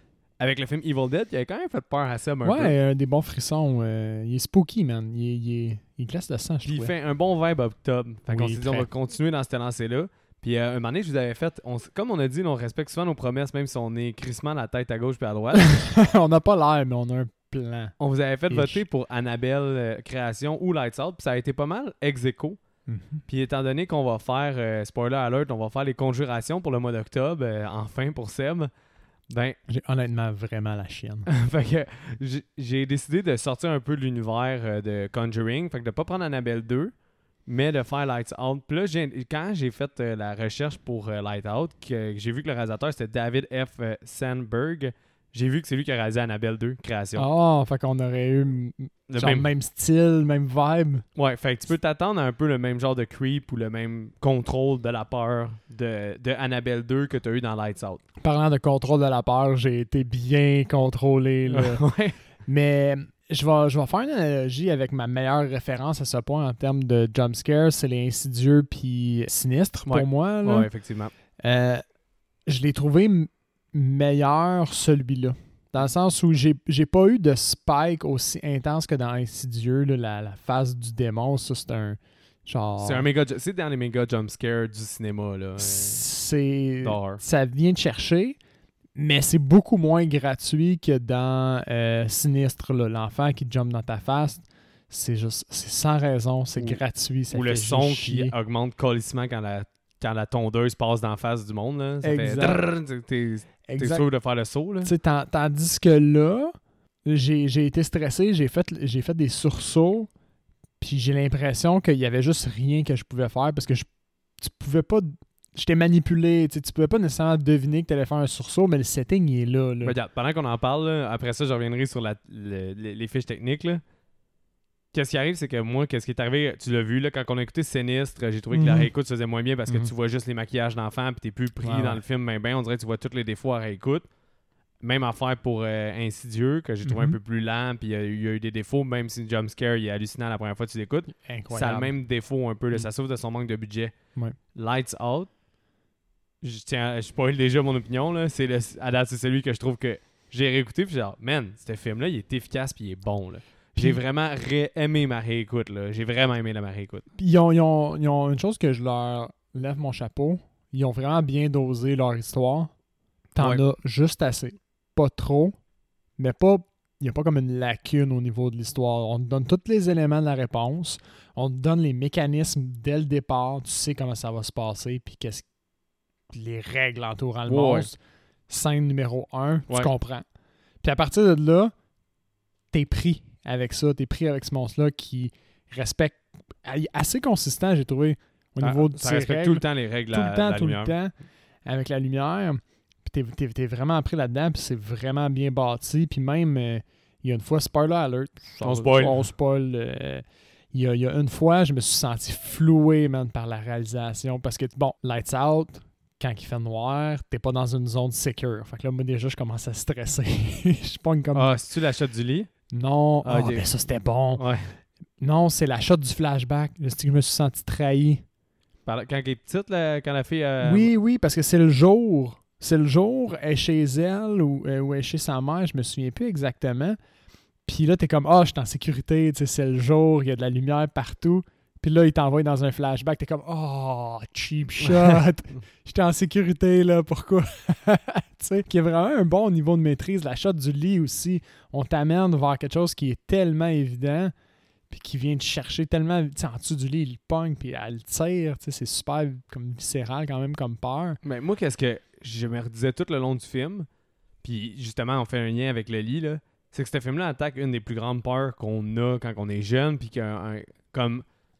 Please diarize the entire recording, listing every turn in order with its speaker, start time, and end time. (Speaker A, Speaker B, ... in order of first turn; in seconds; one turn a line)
Speaker A: 0.4-2.7
Speaker B: 2.4-6.9
Speaker A: 6.7-15.7
Speaker B: 8.3-8.9
Speaker B: 15.5-17.9
Speaker A: 18.0-22.6
Speaker B: 18.5-18.8
Speaker B: 22.9-23.2
Speaker A: 23.3-28.7
Speaker A: 29.3-29.6
Speaker B: 29.7-31.3
Speaker A: 31.3-36.9
Speaker A: 37.5-47.3
Speaker B: 47.1-51.0
Speaker A: 49.1-49.5
Speaker A: 51.1-58.0
Speaker B: 58.2-61.8
Speaker A: 61.5-62.2
Speaker B: 62.5-70.7
Speaker A: 69.9-71.1
Speaker B: 71.4-71.8
Speaker B: 72.5-83.1
Speaker A: 82.8-86.0
Speaker B: 85.6-88.4
Speaker A: 86.8-87.2
Speaker B: 88.9-98.3
Speaker A: 96.6-104.9
Speaker B: 102.0-102.6
Speaker B: 103.7-104.0
Speaker B: 104.8-110.1
Speaker B: 110.8-113.9
Speaker B: 114.4-120.0
Speaker A: 119.8-123.8
Speaker A: 124.9-134.0
Speaker B: 128.5-128.9
Speaker B: 131.6-132.0
Speaker A: 134.8-143.9
Speaker B: 136.8-137.2
Speaker B: 141.2-141.9
Speaker A: 144.5-145.3
Speaker A: 146.4-157.1
Speaker B: 157.2-162.7
Speaker B: 163.3-165.6
Speaker B: 166.2-175.4
Speaker B: 176.3-178.0
Speaker A: 177.4-177.9
Speaker B: 178.5-180.2
Speaker B: 180.8-181.7
Speaker B: 182.7-191.1
Speaker A: 188.6-190.9
Speaker B: 191.6-211.6
Speaker A: 198.6-199.2
Speaker A: 211.3-212.5
Speaker B: 212.7-214.4
Speaker A: 213.2-213.7
Speaker A: 214.3-214.7
Speaker B: 215.2-218.2
Speaker A: 218.8-220.9
Speaker B: 220.6-227.0
Speaker B: 227.7-244.3
Speaker B: 244.9-251.2
Speaker A: 251.2-253.9
Speaker A: 254.4-261.2